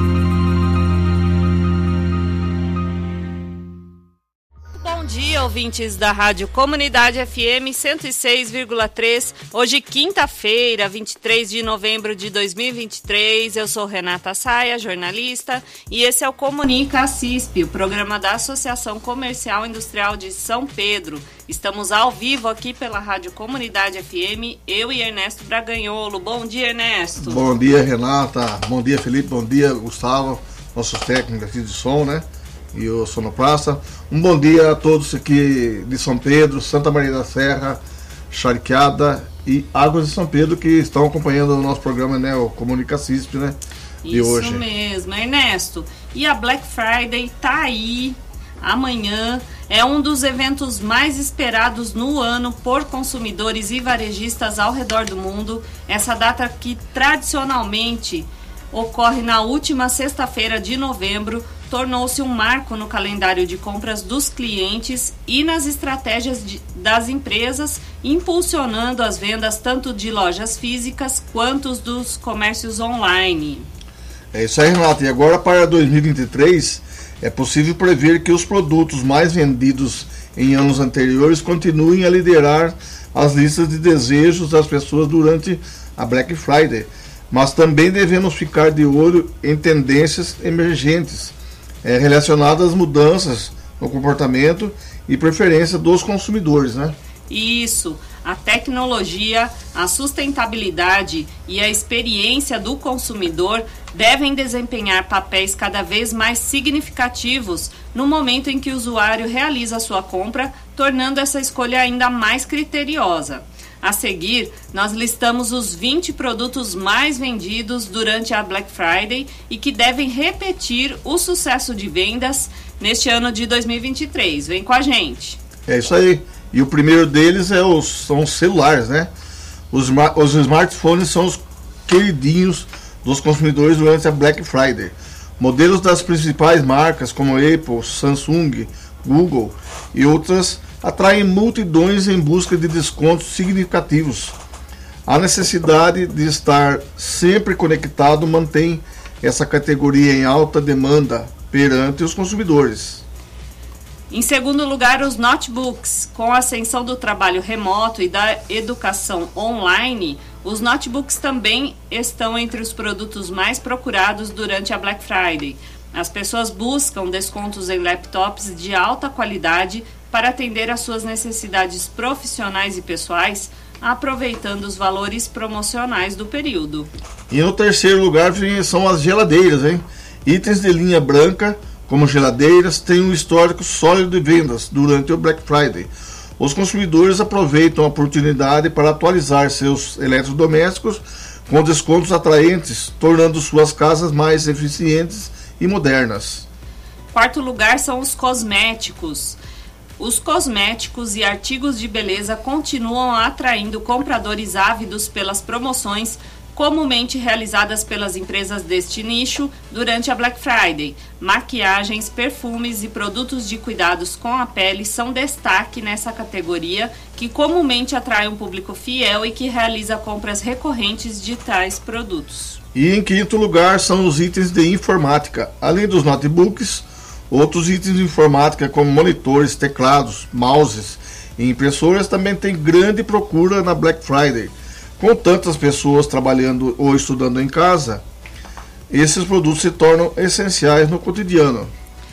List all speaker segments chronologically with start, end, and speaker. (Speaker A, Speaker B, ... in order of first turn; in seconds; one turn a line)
Speaker A: 4.8-27.5
Speaker B: 27.2-43.6
Speaker A: 44.0-73.7
Speaker B: 44.1-44.6
Speaker B: 74.3-97.0
Speaker A: 97.3-125.4
Speaker B: 125.7-129.1
Speaker B: 129.7-144.3
Speaker B: 145.1-153.0
Speaker A: 154.1-176.9
Speaker B: 177.3-196.5
Speaker A: 197.1-199.4
Speaker A: 200.0-222.6
Speaker B: 222.7-238.0
Speaker B: 238.9-241.7